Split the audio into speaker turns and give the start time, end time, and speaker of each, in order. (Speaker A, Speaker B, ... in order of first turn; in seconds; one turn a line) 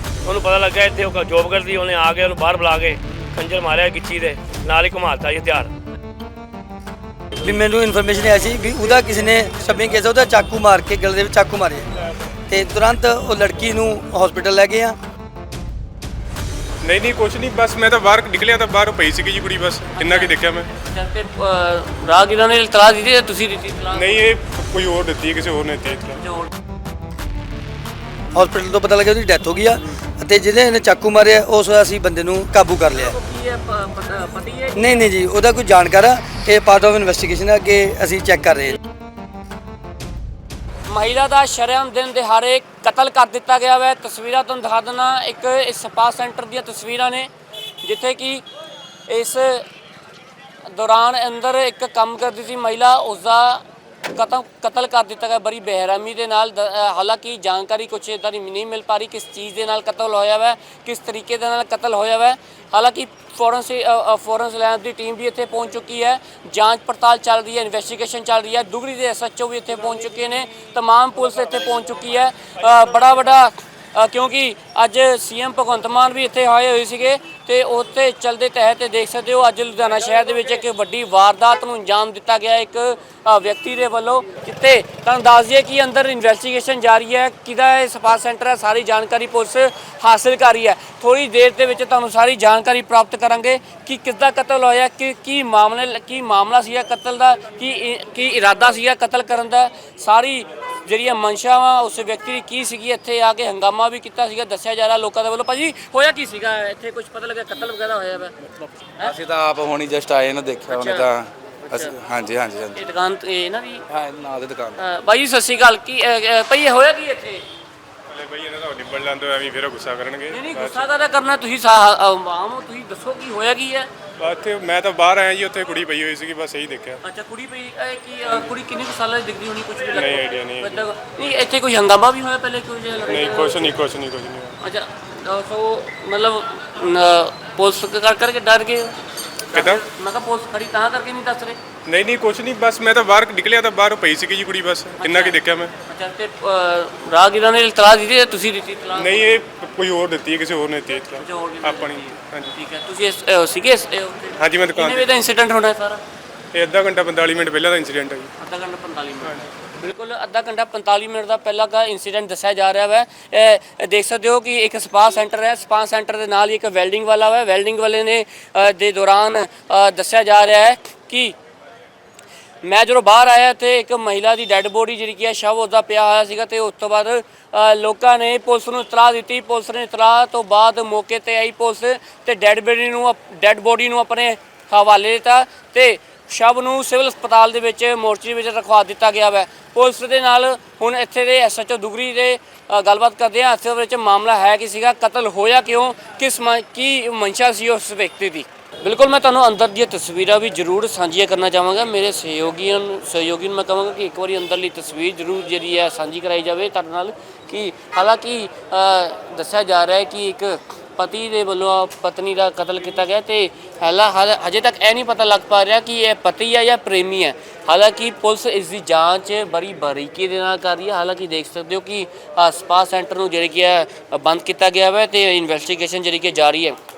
Speaker A: 0.2-5.7
Speaker B: 7.4-11.9
Speaker B: 12.5-15.0
Speaker C: 16.8-20.7
Speaker D: 20.0-24.1
Speaker C: 23.9-26.2
Speaker D: 26.2-26.5
Speaker B: 28.3-33.2
Speaker D: 32.9-35.0
Speaker B: 34.8-38.8
Speaker D: 40.9-47.3
Speaker D: 47.8-48.4
Speaker D: 49.1-49.6
Speaker D: 50.6-108.3
Speaker E: 109.0-112.8
Speaker D: 110.7-111.1
Speaker D: 111.7-112.0
Speaker D: 112.7-113.8
Speaker E: 113.9-114.8
Speaker D: 114.8-117.5
Speaker C: 118.1-120.8
Speaker D: 120.3-123.9
Speaker C: 124.2-127.0
Speaker D: 127.0-133.7
Speaker C: 129.9-130.8
Speaker C: 133.1-134.6
Speaker D: 134.6-138.9
Speaker D: 139.5-141.6
Speaker C: 139.5-139.8
Speaker C: 141.9-145.7
Speaker D: 145.0-149.4
Speaker C: 149.0-152.5
Speaker D: 151.2-156.0
Speaker C: 154.4-155.1
Speaker C: 156.5-158.3
Speaker D: 158.4-171.3
Speaker D: 172.6-226.8